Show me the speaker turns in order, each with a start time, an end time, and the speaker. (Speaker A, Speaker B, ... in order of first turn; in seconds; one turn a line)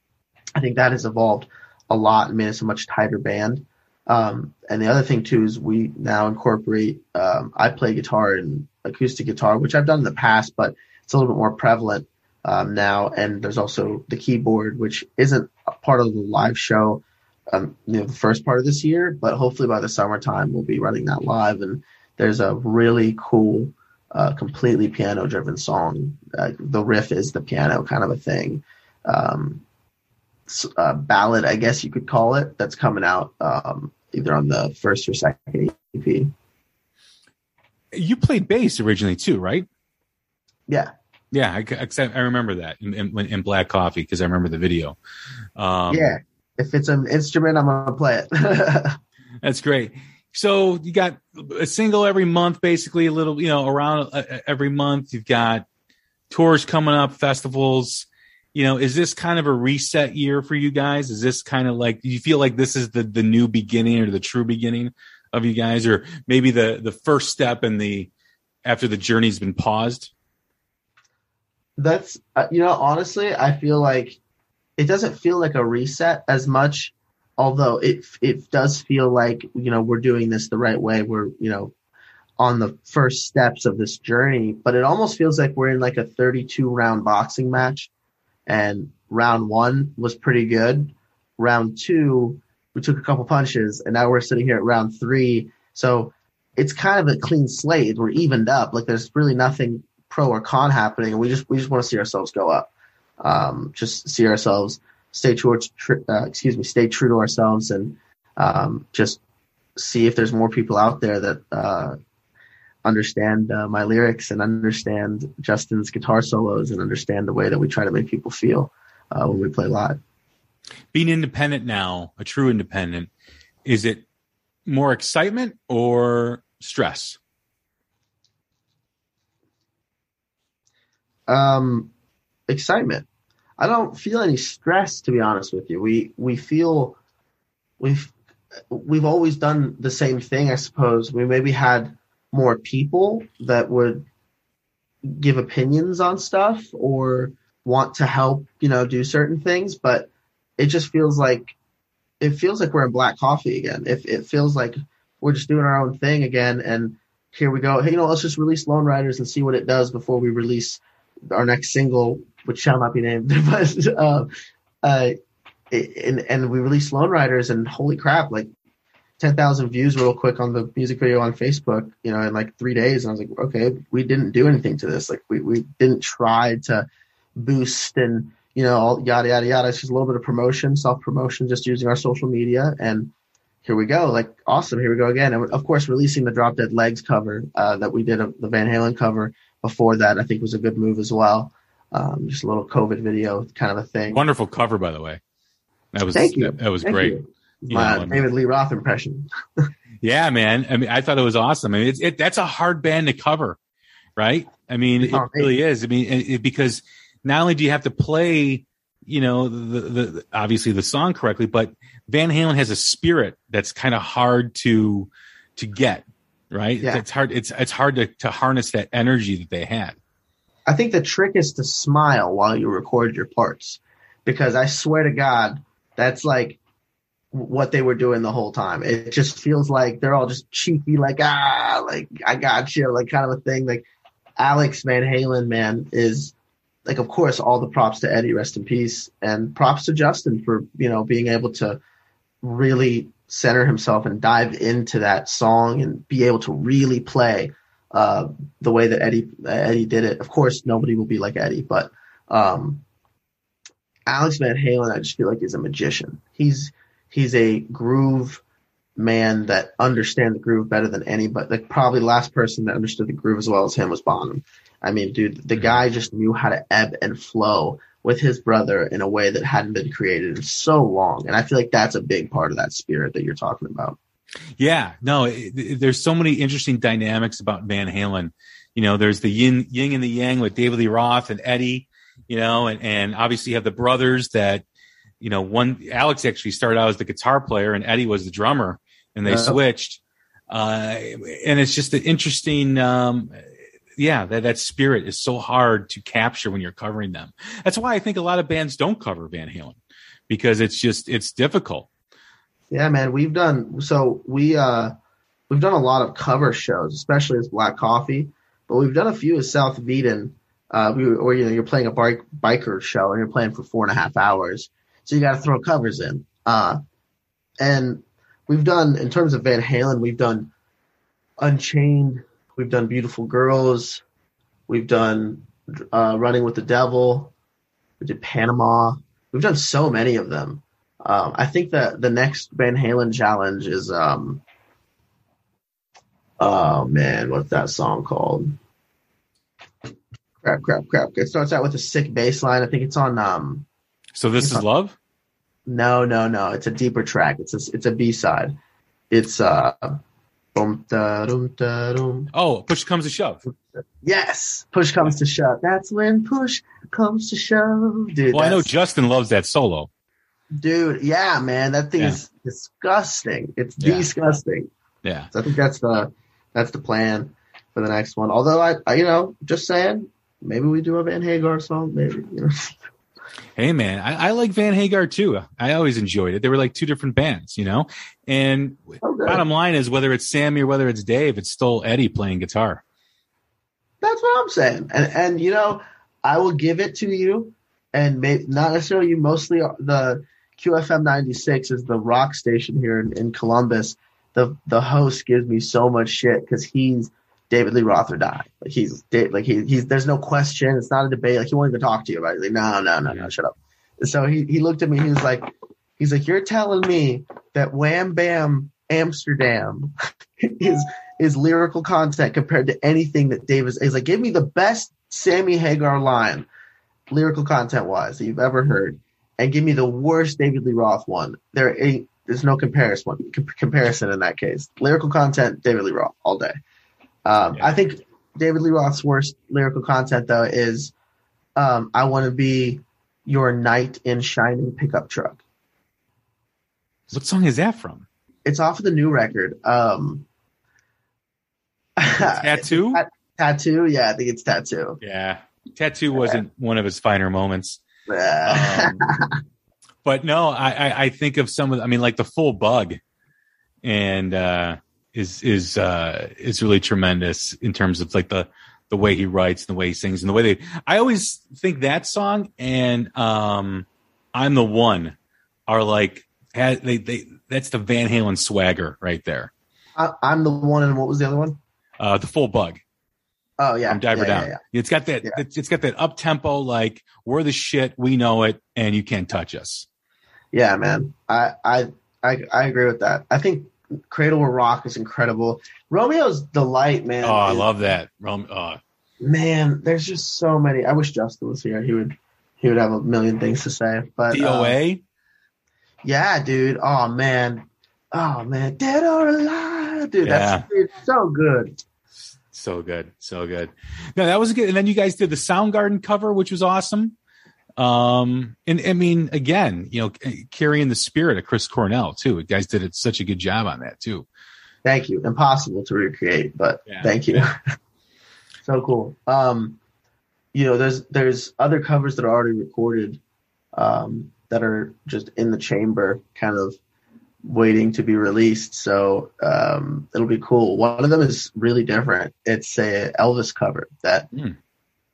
Speaker A: 0.6-29.6
Speaker A: 30.5-36.3
Speaker B: 37.9-39.7
Speaker B: 41.3-45.0
Speaker B: 45.6-46.2
Speaker A: 45.9-49.0
Speaker B: 49.4-55.7
Speaker B: 56.3-68.1
Speaker B: 68.7-70.1
Speaker A: 71.8-74.2
Speaker A: 74.8-81.7
Speaker A: 82.4-87.9
Speaker A: 88.5-109.2
Speaker A: 109.8-112.0
Speaker A: 112.8-120.0
Speaker B: 120.9-123.1
Speaker B: 123.7-124.0
Speaker B: 124.7-127.2
Speaker A: 131.3-131.9
Speaker A: 132.5-133.1
Speaker A: 133.6-137.0
Speaker A: 137.8-138.1
Speaker A: 138.7-144.1
Speaker A: 145.0-151.5
Speaker A: 152.2-164.3
Speaker A: 164.8-165.2
Speaker A: 165.7-168.5
Speaker A: 169.2-183.1
Speaker A: 183.7-194.2
Speaker B: 194.1-195.2
Speaker B: 195.9-197.2
Speaker A: 196.1-199.7
Speaker B: 197.7-198.2
Speaker B: 200.0-203.6
Speaker B: 204.2-220.0
Speaker A: 205.0-205.5
Speaker A: 220.7-226.6
Speaker A: 227.3-233.9
Speaker A: 234.4-236.3
Speaker A: 236.9-241.8
Speaker A: 242.4-252.8
Speaker A: 254.1-258.4
Speaker A: 259.0-274.0
Speaker B: 274.6-284.6
Speaker B: 285.2-293.4
Speaker A: 289.3-289.6
Speaker B: 294.0-299.8
Speaker B: 300.3-301.9
Speaker A: 302.7-304.9
Speaker A: 305.5-316.8
Speaker A: 317.6-320.5
Speaker A: 321.4-324.0
Speaker A: 324.7-327.3
Speaker A: 328.0-334.4
Speaker A: 336.4-338.6
Speaker A: 340.4-343.7
Speaker B: 344.2-344.9
Speaker A: 344.4-344.6
Speaker A: 345.7-348.6
Speaker A: 349.1-350.0
Speaker A: 350.5-352.3
Speaker B: 352.3-353.4
Speaker A: 353.8-358.7
Speaker B: 358.3-359.9
Speaker A: 360.5-364.7
Speaker B: 363.8-364.1
Speaker B: 365.0-365.3
Speaker A: 365.3-372.8
Speaker B: 373.6-382.8
Speaker A: 379.0-379.4
Speaker A: 384.0-416.5
Speaker A: 417.1-426.6
Speaker A: 427.2-430.9
Speaker A: 431.6-435.4
Speaker B: 437.1-438.1
Speaker A: 438.4-440.3
Speaker A: 442.0-445.0
Speaker B: 442.2-443.0
Speaker B: 445.0-447.8
Speaker A: 446.1-446.4
Speaker A: 448.1-449.3
Speaker B: 448.5-449.1
Speaker B: 450.1-453.0
Speaker B: 453.8-465.1
Speaker B: 465.7-469.5
Speaker A: 470.0-471.6
Speaker B: 472.0-472.8
Speaker A: 473.6-474.6
Speaker B: 473.9-479.9
Speaker A: 480.5-487.7
Speaker B: 487.2-488.8
Speaker A: 489.2-494.8
Speaker B: 494.3-495.0
Speaker A: 496.0-501.8
Speaker B: 500.2-500.6
Speaker B: 502.5-507.1
Speaker B: 507.8-514.3
Speaker A: 514.8-517.6
Speaker B: 516.9-517.4
Speaker A: 518.6-519.8
Speaker A: 520.5-523.2
Speaker A: 523.7-526.8
Speaker A: 527.4-534.3